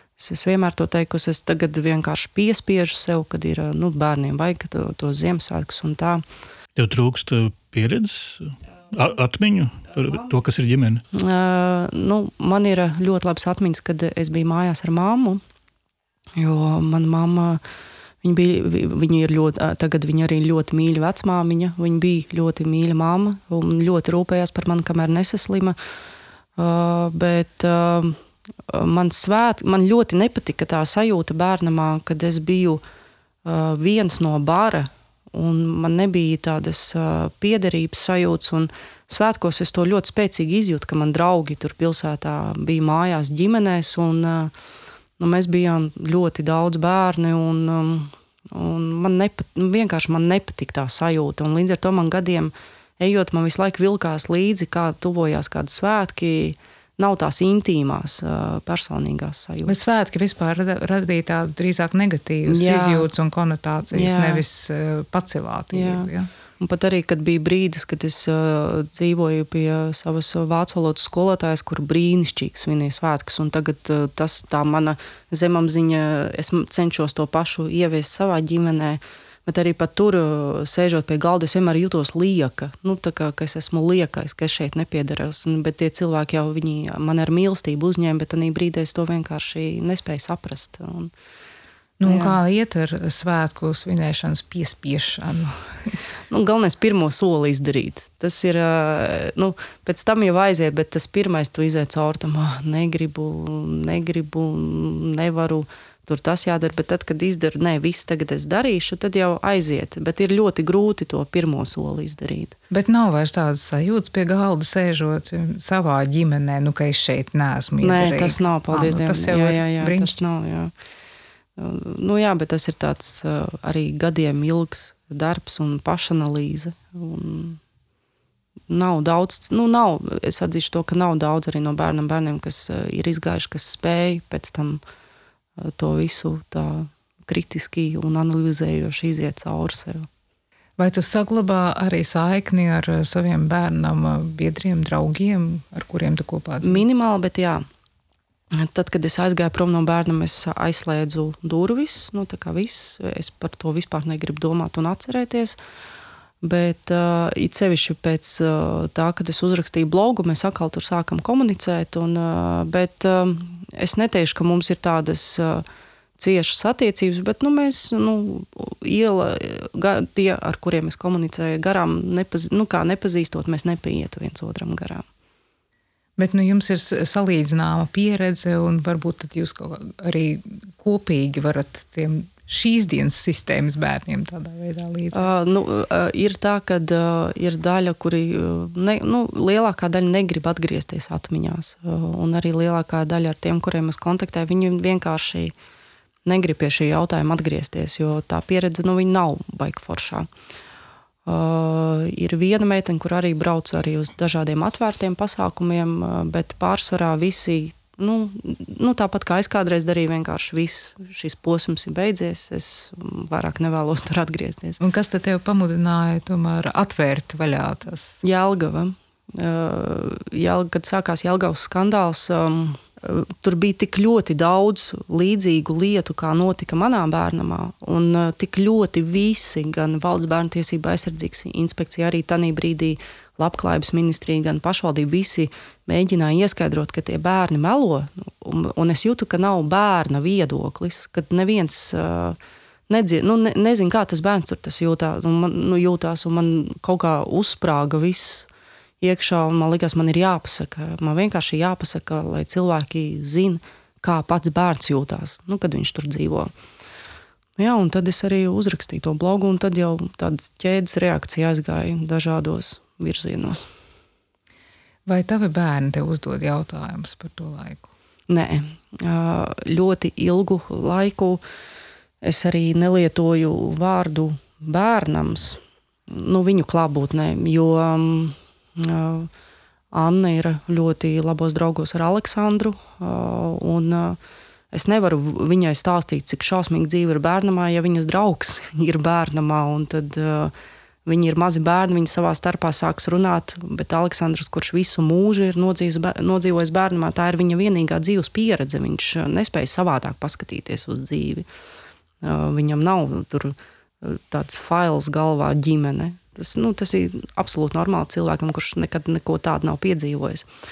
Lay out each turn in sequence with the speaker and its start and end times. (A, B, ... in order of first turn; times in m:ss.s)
0:00.2-0:06.2 A
0:06.8-0:11.0 B
0:11.1-0:15.4 A
0:16.4-0:17.6 A
0:18.2-0:25.8 A
0:26.6-0:32.8 A
0:33.4-0:44.5 A
0:45.2-0:59.7 A
0:59.6-1:06.3 C
1:02.4-1:03.1 A
1:03.9-1:04.4 A
1:05.7-1:06.1 A
1:06.6-1:31.1 A
1:32.0-1:36.0 C
1:32.0-1:32.4 A
1:36.3-1:52.6 A
1:52.7-2:00.2 C
1:57.8-2:00.7 A
2:01.6-2:07.6 A
2:08.7-2:14.8 A
2:15.6-2:20.1 A
2:20.8-2:26.8 C
2:26.6-2:27.6 A
2:28.5-2:35.6 A
2:36.4-2:45.6 A
2:46.2-2:55.0 A
2:56.2-3:05.3 C
3:05.1-3:15.5 A
3:16.2-3:20.3 A
3:21.2-3:34.8 A
3:34.8-3:38.2 C
3:38.2-4:02.4 A
4:02.9-4:08.5 A
4:09.0-4:16.5 A
4:17.6-4:23.6 A
4:25.0-4:27.9 C
4:28.3-4:31.4 A
4:32.2-4:39.3 A
4:39.9-4:44.2 A
4:44.7-4:50.5 A
4:51.0-5:01.4 A
5:02.2-5:10.5 A